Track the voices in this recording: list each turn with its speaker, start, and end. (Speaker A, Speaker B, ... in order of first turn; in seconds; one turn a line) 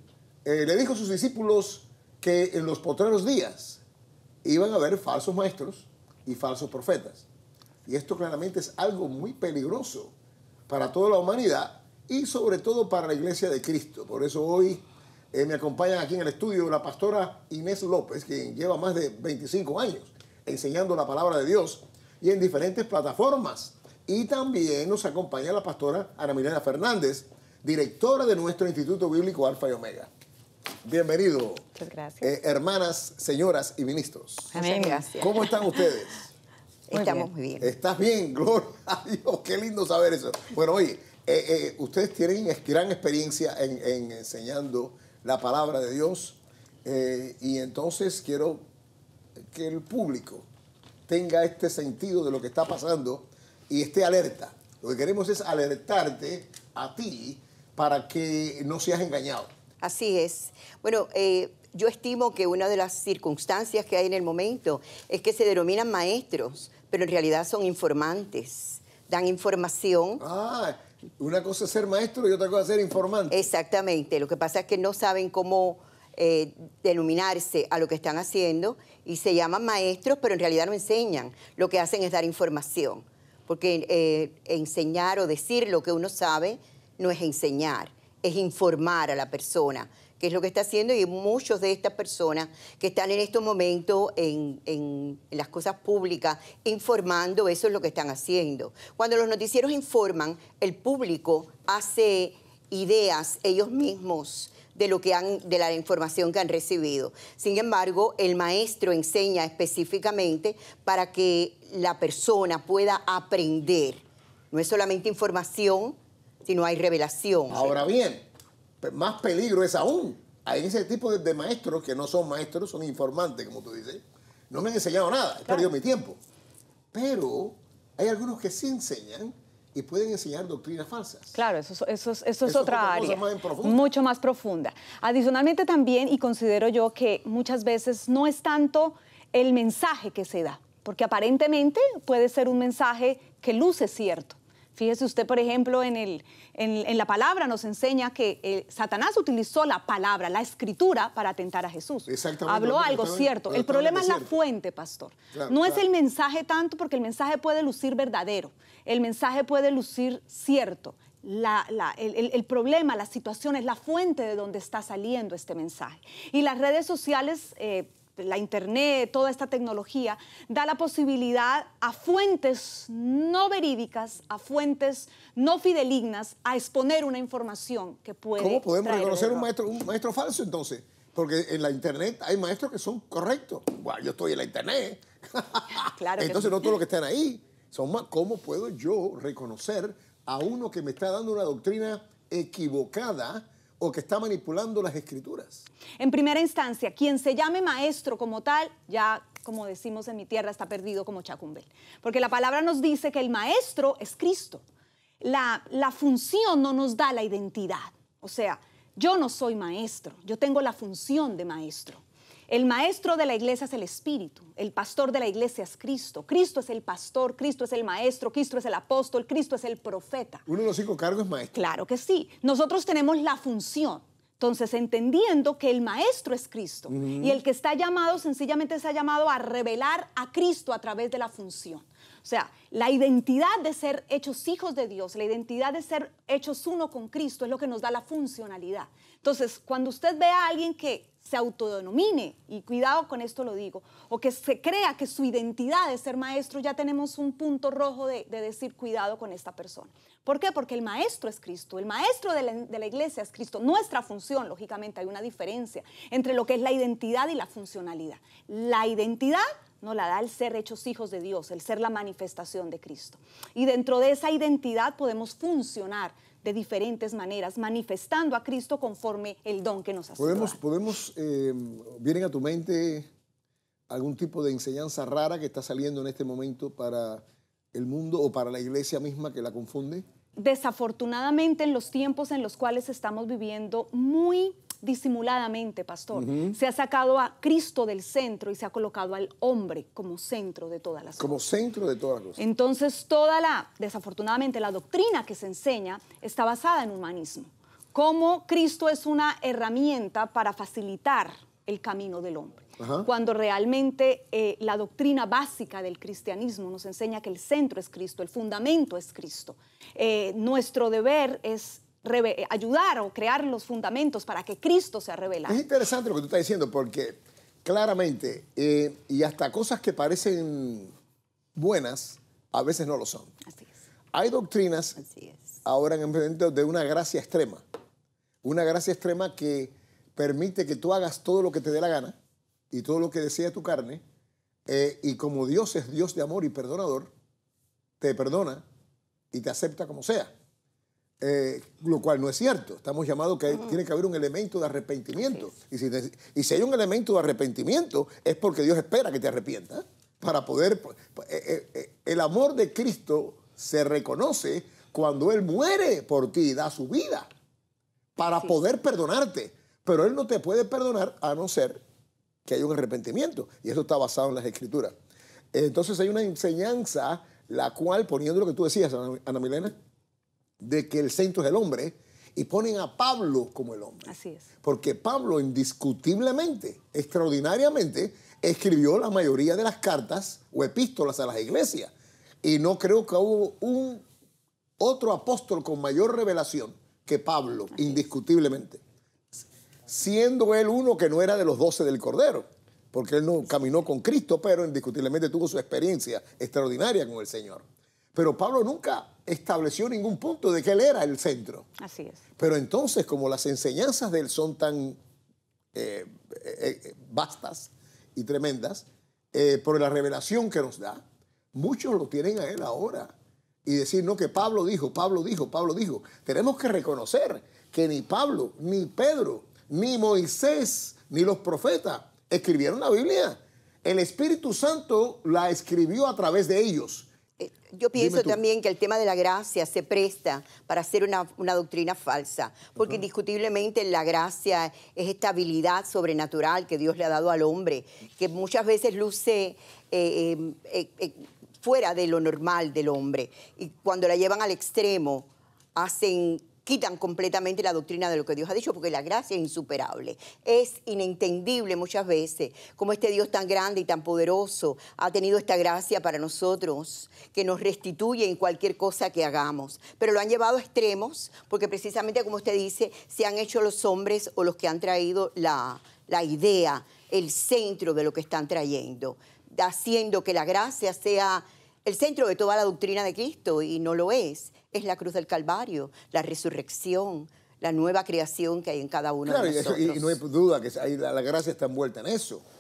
Speaker A: 0.5-3.8
Speaker A: 4.4-7.3
Speaker A: 7.9-10.1
Speaker A: 10.7-30.1
Speaker A: 30.9-31.7
Speaker B: 31.8-32.3
Speaker A: 32.2-36.3
Speaker B: 34.5-35.4
Speaker C: 34.6-35.5
Speaker C: 36.9-37.7
Speaker B: 36.9-37.3
Speaker A: 37.6-48.6
Speaker A: 49.5-50.5
Speaker A: 51.1-59.5
Speaker C: 59.8-70.2
Speaker A: 70.2-73.5
Speaker C: 73.3-117.8
Speaker A: 117.5-118.2
Speaker A: 118.8-126.2
Speaker A: 126.9-131.3
Speaker B: 131.3-179.5
Speaker A: 132.4-133.8
Speaker A: 152.1-154.4
Speaker A: 155.3-155.9
Speaker A: 178.4-195.7
Speaker B: 185.7-186.7
Speaker B: 196.0-204.6
Speaker B: 205.2-220.5
Speaker A: 220.5-221.6
Speaker B: 221.5-270.6
Speaker A: 226.9-227.4
Speaker A: 270.2-273.1
Speaker A: 273.9-280.1
Speaker B: 280.4-291.4
Speaker A: 286.1-286.6
Speaker A: 291.2-292.4
Speaker B: 292.4-315.6
Speaker A: 302.8-303.1
Speaker A: 315.5-320.9
Speaker A: 321.6-323.3
Speaker A: 324.1-325.0
Speaker C: 325.0-325.6
Speaker A: 325.6-327.6
Speaker A: 328.4-332.2
Speaker A: 332.7-334.0
Speaker A: 334.7-337.1
Speaker A: 338.0-338.6
Speaker A: 339.3-340.3
Speaker A: 341.2-357.3
Speaker A: 358.2-361.8
Speaker A: 362.5-364.9
Speaker A: 365.5-369.7
Speaker A: 370.6-381.9
Speaker B: 374.1-374.5
Speaker A: 382.4-384.0
Speaker A: 384.8-388.8
Speaker A: 389.9-401.7
Speaker B: 401.8-402.2
Speaker A: 402.4-405.0
Speaker A: 405.7-411.0
Speaker A: 411.5-413.1
Speaker A: 413.6-427.1
Speaker C: 427.4-480.2
Speaker A: 427.9-428.4
Speaker A: 479.2-482.4